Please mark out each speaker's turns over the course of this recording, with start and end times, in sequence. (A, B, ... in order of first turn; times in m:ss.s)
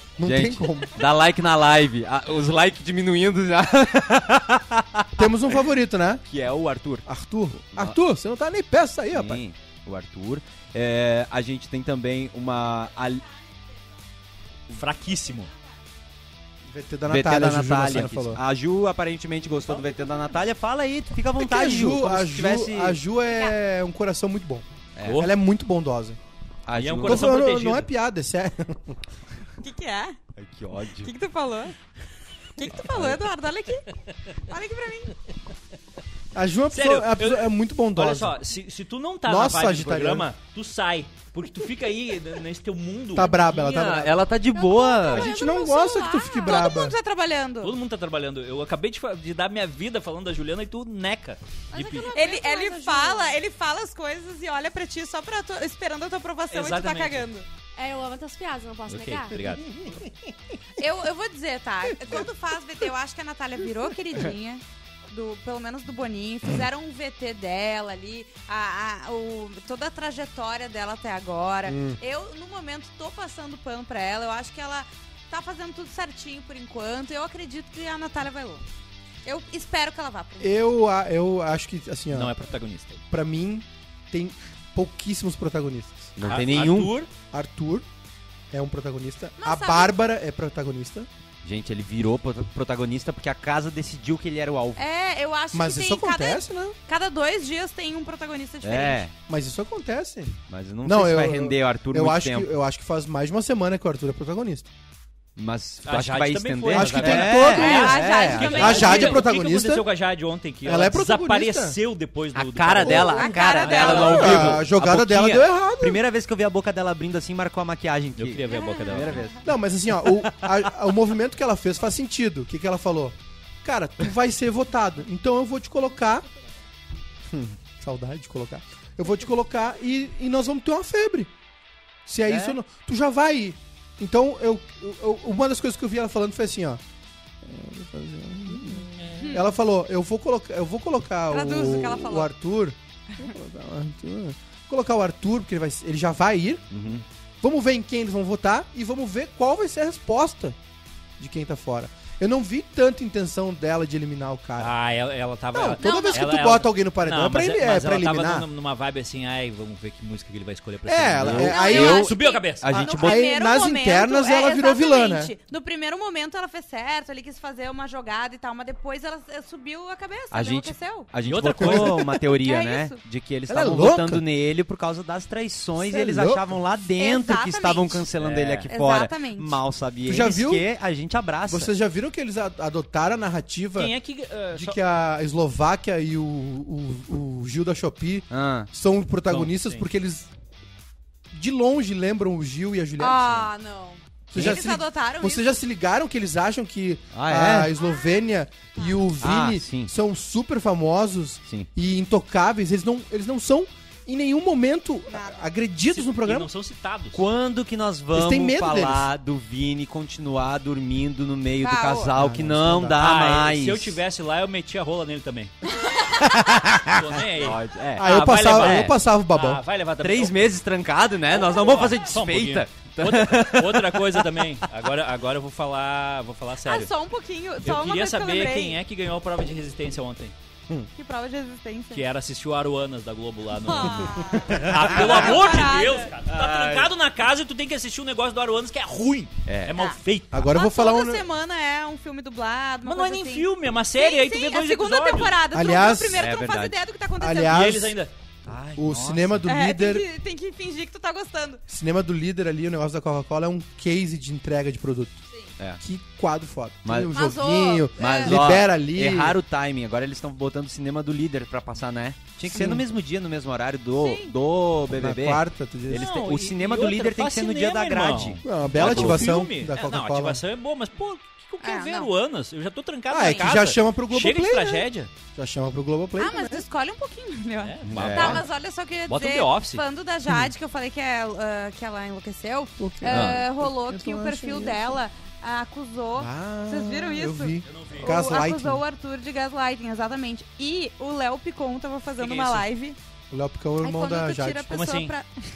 0:00.2-0:01.0 A
0:00.2-0:05.3 B
0:05.2-0:06.2 A
0:06.3-0:07.0 B
0:07.0-0:09.4 A
0:07.7-0:08.0 B
0:09.1-0:13.2 B
0:14.7-0:15.5 C
0:16.7-0:18.4 A
0:17.1-0:23.0 B
0:21.4-0:26.2 A
0:25.0-0:25.3 B
0:25.0-0:25.3 C
0:26.7-0:27.4 B
0:26.7-0:27.9 C
0:27.0-0:29.0 A
0:29.6-0:30.2 D
0:30.4-0:31.1 B
0:31.0-0:31.8 D
0:32.6-0:33.9 D
0:32.8-0:33.2 B
0:34.5-0:35.2 D
0:36.3-0:38.4 A
0:36.7-0:43.4 C
0:39.3-0:40.3 A
0:43.1-0:44.2 A
0:43.4-0:45.3 B
0:44.5-0:47.8 D
0:45.0-0:46.5 E
0:45.1-0:47.0 A
0:47.6-0:52.1 C
0:51.7-0:53.4 E
0:52.1-0:57.5 D
0:56.5-0:57.3 C
0:57.8-0:59.5 E
0:58.9-0:59.7 C
1:00.8-1:18.6 D
1:11.6-1:12.0 A
1:19.2-1:20.6 D
1:20.4-1:22.3 A
1:22.1-1:23.0 C
1:23.1-1:26.1 A
1:26.2-1:26.9 B
1:26.2-1:27.1 C
1:27.3-1:27.8 A
1:28.5-1:31.1 A
1:29.4-1:30.0 D
1:31.4-1:34.8 B
1:34.8-1:39.0 D
1:35.5-1:36.8 A
1:38.6-1:39.1 B
1:39.3-1:44.7 A
1:40.5-1:42.5 B
1:45.4-1:49.2 B
1:45.8-1:54.6 C
1:46.7-1:49.8 A
1:47.4-1:49.2 D
1:50.6-1:51.8 A
1:52.3-1:59.4 B
1:52.8-1:53.2 A
1:53.0-1:54.4 D
1:53.8-1:56.0 A
1:58.2-1:59.2 C
1:58.6-1:59.2 D
1:59.4-2:06.2 A
2:07.3-2:11.3 A
2:12.0-2:16.8 A
2:12.3-2:12.5 B
2:17.4-2:26.6 A
2:19.2-2:19.4 D
2:21.3-2:22.3 D
2:26.7-2:27.0 B
2:27.4-2:30.6 A
2:31.2-2:34.7 A
2:34.6-2:42.7 C
2:35.5-2:38.4 A
2:35.8-2:36.3 D
2:40.9-2:42.1 A
2:41.2-2:43.2 B
2:41.4-2:51.1 D
2:43.0-2:45.3 A
2:50.3-3:01.7 B
2:51.2-2:52.0 C
2:51.6-2:52.1 A
2:52.2-2:53.0 D
2:53.5-2:54.2 A
2:55.8-2:56.5 A
2:57.0-2:58.0 D
2:58.2-2:58.7 C
2:58.7-2:59.6 D
3:00.0-3:00.7 A
3:01.5-3:03.9 A
3:03.8-3:04.8 C
3:04.5-3:10.3 A
3:08.3-3:08.7 B
3:09.3-3:09.8 C
3:11.3-3:13.4 A
3:13.0-3:15.6 D
3:14.3-3:26.5 A
3:14.3-3:14.6 B
3:17.1-3:17.7 B
3:17.8-3:18.1 D
3:19.2-3:19.9 B
3:25.1-3:25.4 D
3:25.9-3:27.2 C
3:27.1-3:34.0 B
3:28.1-3:29.1 A
3:31.6-3:32.1 D
3:32.1-3:33.0 A
3:33.0-3:35.5 C
3:35.8-3:36.4 D
3:36.7-3:38.9 B
3:36.8-3:40.4 C
3:38.0-3:39.6 A
3:40.0-3:44.2 B
3:41.6-3:46.9 C
3:46.6-3:48.8 D
3:47.6-3:50.3 C
3:51.0-3:52.0 D
3:51.9-4:00.5 C
3:53.6-3:56.1 D
3:54.5-3:55.6 B
3:56.3-3:56.9 B
3:59.4-3:59.8 B
3:59.7-4:00.0 D
4:00.3-4:01.2 A
4:00.5-4:07.6 D
4:02.8-4:05.4 C
4:05.5-4:06.3 A
4:06.1-4:06.8 B
4:07.2-4:08.0 A
4:07.4-4:08.1 C
4:08.5-4:09.3 B
4:08.8-4:10.0 A
4:08.8-4:09.2 C
4:09.5-4:11.6 D
4:11.7-4:15.2 A
4:15.8-4:19.4 A
4:16.8-4:17.2 B
4:17.1-4:18.4 D
4:18.0-4:29.3 B
4:22.5-4:22.8 A
4:24.0-4:24.3 D
4:24.9-4:26.1 A
4:25.9-4:35.1 C
4:28.4-4:30.4 A
4:31.6-4:32.1 D
4:33.1-4:36.6 A
4:33.2-4:33.5 D
4:36.2-4:53.0 D
4:37.6-4:38.5 C
4:37.9-4:38.4 B
4:39.1-4:39.8 C
4:40.3-4:40.5 A
4:42.8-4:45.0 A
4:43.1-4:43.4 B
4:46.2-4:48.8 A
4:47.6-4:48.2 C
4:52.2-4:52.7 C
4:53.3-4:54.8 A
4:53.8-4:55.3 D
4:54.7-4:55.1 C